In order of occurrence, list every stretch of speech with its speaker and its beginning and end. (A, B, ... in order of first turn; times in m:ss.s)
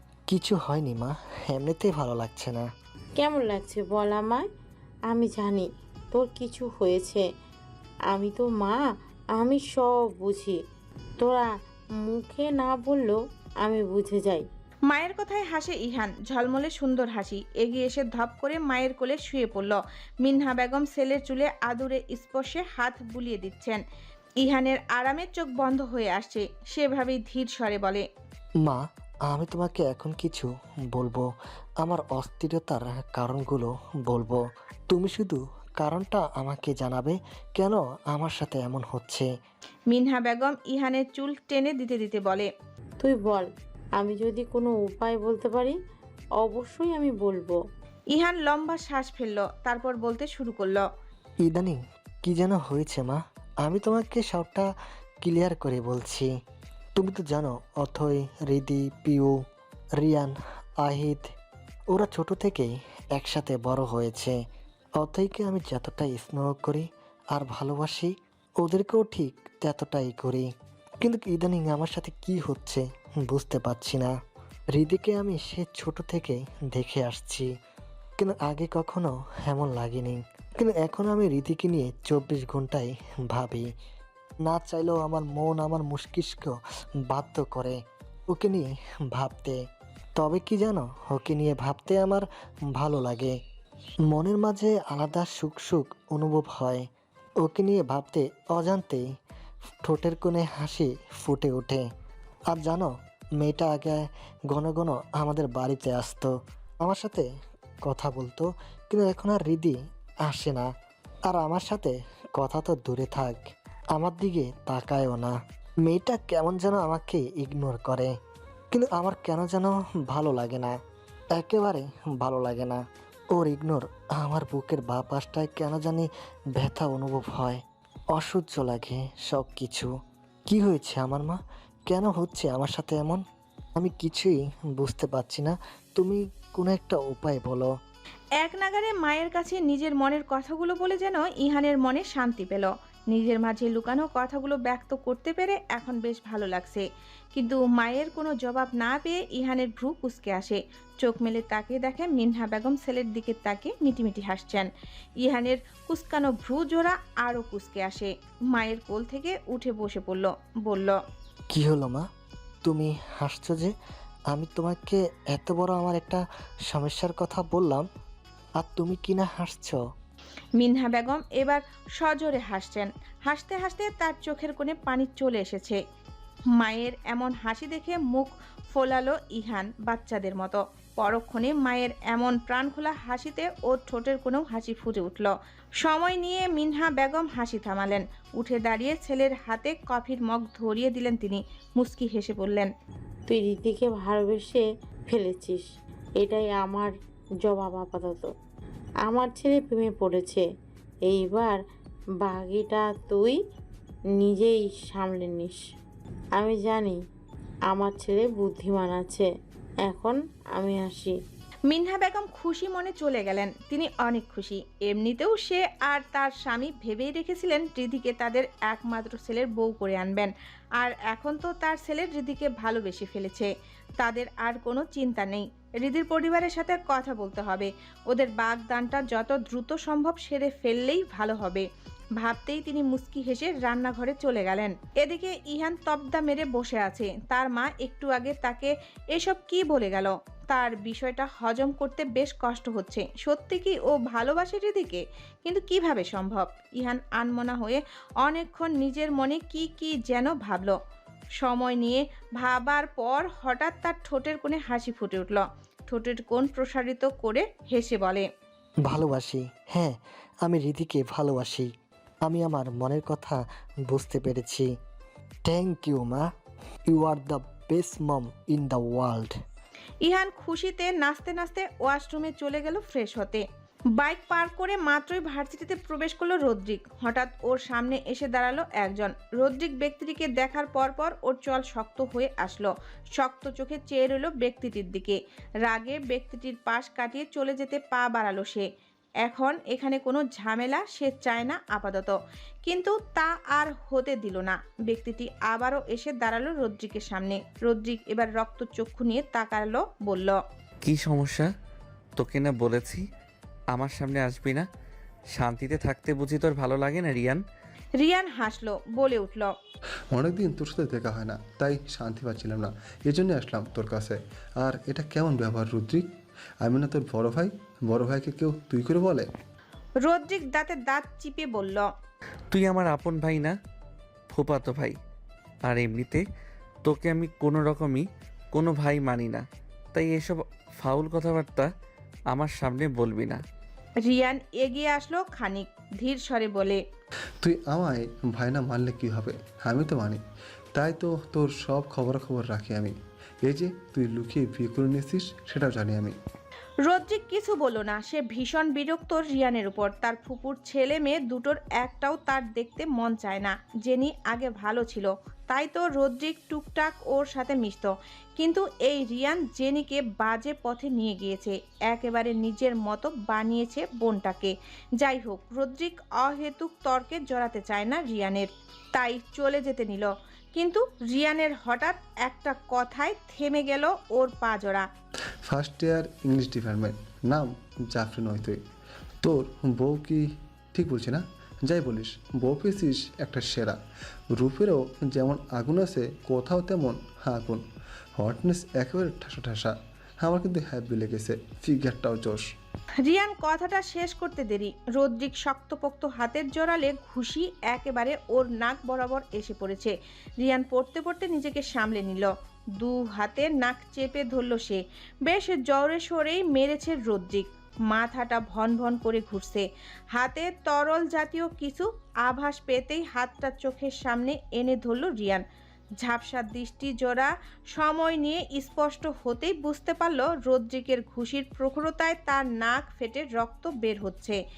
0:00.3-0:02.6 A
0:03.2-0:04.5 B
0:05.1-0:07.2 B
0:08.1-0:08.8 B
0:09.4-0:10.6 B
0:11.2-0:11.5 B
0:12.0-0:14.5 B
0:14.9-0:23.8 C
0:24.4-0:28.0 C
0:28.6-0:31.3 A
0:31.8-0:34.4 A
0:34.9-0:39.3 A
0:39.9-0:42.5 C
0:43.0-0:43.5 B
0:44.0-0:45.8 B
0:46.4-0:47.6 B
0:48.1-0:50.8 C
0:51.4-0:54.7 A
0:55.2-0:56.3 A
0:57.0-0:59.4 A
1:00.0-1:01.3 A
1:01.9-1:04.4 A
1:05.0-1:10.5 A
1:11.0-1:14.1 A
1:14.7-1:17.5 A
1:18.2-1:23.7 A
1:24.4-1:26.6 A
1:27.1-1:27.8 A
1:28.3-1:29.6 A
1:30.2-1:33.4 A
1:34.1-1:36.9 A
1:37.4-1:39.0 A
1:39.8-1:41.8 A
1:42.5-1:46.3 A
1:46.8-1:47.3 A
1:47.8-1:50.7 A
1:51.3-1:53.4 A
1:54.0-1:58.1 A
1:58.7-2:00.8 A
2:01.4-2:02.8 A
2:03.4-2:07.6 A
2:08.2-2:09.9 A
2:10.5-2:11.4 A
2:11.9-2:13.2 A
2:13.8-2:17.7 A
2:18.4-2:34.7 C
2:35.2-2:41.0 C
2:41.5-2:42.0 A
2:42.6-2:43.7 A
2:44.3-2:47.8 A
2:48.6-2:49.8 A
2:50.6-2:55.8 C
2:56.6-3:12.7 C
3:13.3-3:15.7 B
3:16.2-3:18.3 B
3:19.0-3:20.4 B
3:21.0-3:21.6 B
3:22.2-3:23.4 B
3:24.2-3:25.6 B
3:26.4-3:27.0 B
3:27.7-3:29.3 B
3:29.8-3:31.2 B
3:31.7-3:51.7 C
3:52.2-4:10.8 C
4:11.4-4:18.2 C
4:18.9-4:21.7 A
4:22.2-4:24.7 A
4:25.5-4:26.3 A
4:26.9-4:29.3 A
4:30.0-4:33.4 C
4:34.0-4:48.7 C
4:49.2-5:00.4 C
5:00.8-5:01.5 D
5:02.2-5:03.0 D
5:03.7-5:04.7 D
5:05.3-5:07.4 D
5:08.0-5:09.5 C
5:10.1-5:16.0 E
5:16.6-5:19.2 E
5:20.0-5:21.9 C
5:22.5-5:23.6 D
5:24.3-5:25.0 D
5:25.7-5:26.2 D
5:26.8-5:31.7 D
5:32.3-5:33.4 D
5:34.0-5:36.8 C
5:37.4-5:40.2 E
5:40.7-5:46.2 E
5:46.9-6:14.9 C
6:15.5-6:18.6 E
6:19.2-6:23.8 E
6:24.3-6:27.6 E
6:28.2-6:32.4 E
6:33.0-6:55.4 C
6:56.0-7:04.4 C